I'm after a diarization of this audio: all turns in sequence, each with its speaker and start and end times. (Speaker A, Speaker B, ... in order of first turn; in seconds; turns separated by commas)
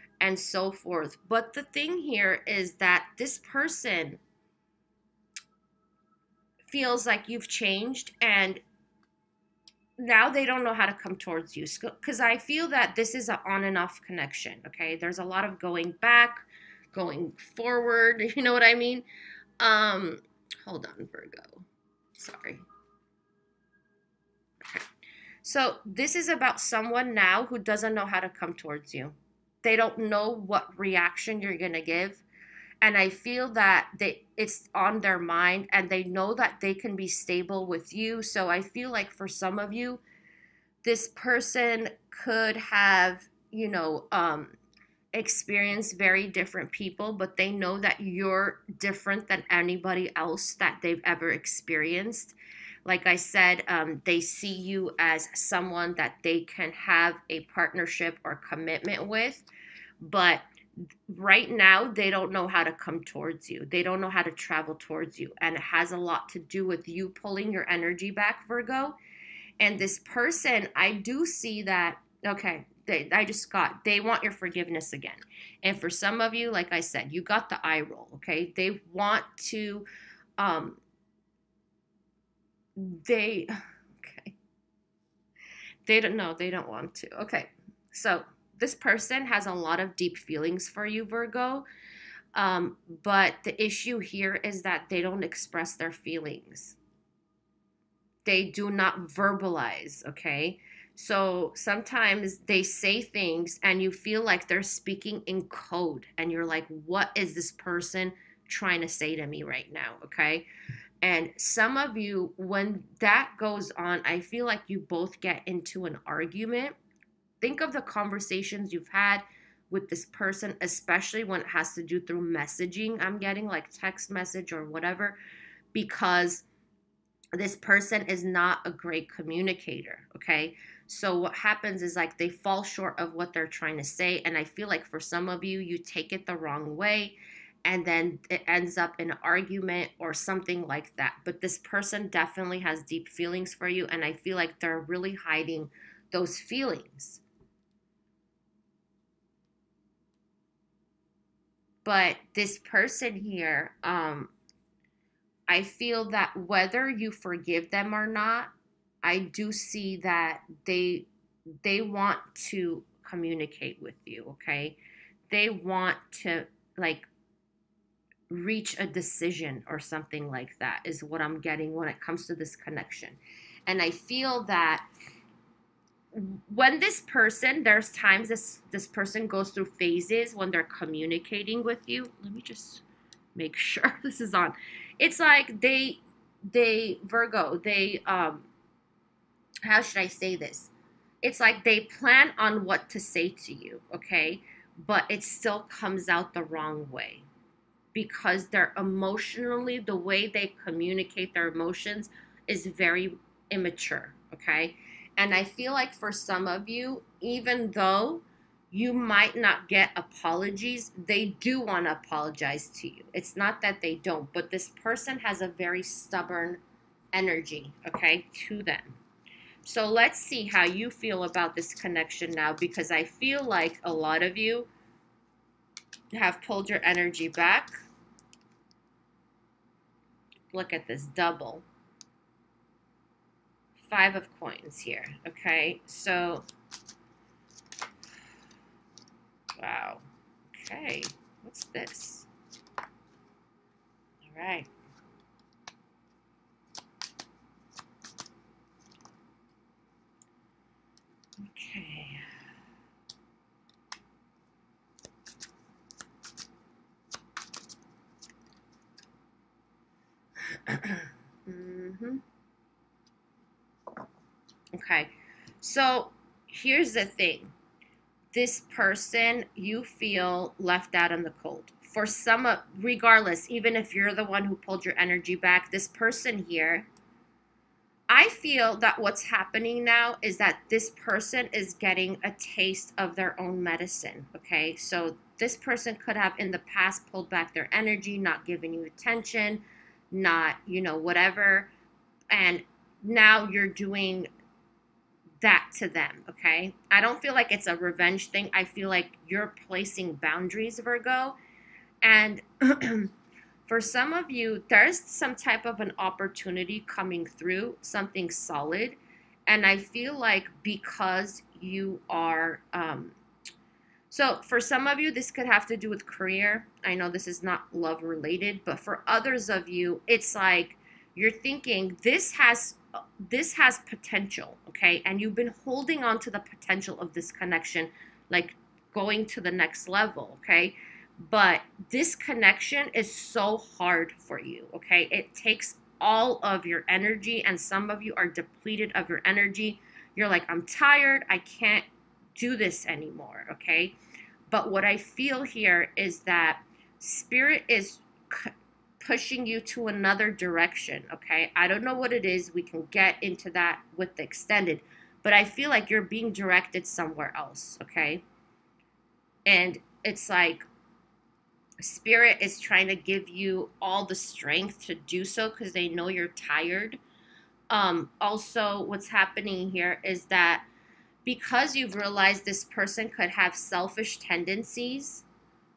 Speaker A: 0.2-4.2, Speaker A: 6.7-8.6, Speaker A: 10.0-19.1, Speaker A: 19.6-22.6, Speaker A: 25.4-32.2, Speaker A: 32.8-40.0, Speaker A: 40.8-44.6, Speaker A: 45.1-59.5, Speaker A: 60.0-60.4, Speaker A: 61.1-69.0, Speaker A: 69.6-79.9, Speaker A: 80.4-80.8, Speaker A: 82.8-84.3, Speaker A: 85.8-91.6, Speaker A: 92.3-96.8, Speaker A: 98.2-110.5, Speaker A: 111.0-116.8, Speaker A: 117.4-125.2, Speaker A: 125.7-126.5, Speaker A: 127.3-147.2, Speaker A: 151.8-154.3, Speaker A: 155.5-161.1, Speaker A: 161.6-164.8, Speaker A: 165.3-167.1, Speaker A: 168.3-174.8, Speaker A: 176.1-182.8, Speaker A: 183.3-188.5, Speaker A: 189.6-197.2, Speaker A: 197.9-216.6, Speaker A: 217.1-219.0, Speaker A: 219.6-224.7, Speaker A: 226.1-227.8, Speaker A: 230.5-231.6, Speaker A: 233.8-236.4, Speaker A: 239.6-242.3, Speaker A: 244.2-244.7, Speaker A: 251.4-252.2, Speaker A: 260.5-262.2, Speaker A: 264.7-267.5, Speaker A: 268.3-276.9, Speaker A: 278.1-291.7, Speaker A: 292.3-294.3, Speaker A: 295.4-301.4, Speaker A: 302.0-303.1, Speaker A: 303.7-313.1, Speaker A: 314.1-343.9, Speaker A: 344.5-358.2, Speaker A: 359.4-360.6, Speaker A: 361.8-367.0, Speaker A: 367.7-370.6, Speaker A: 371.2-375.2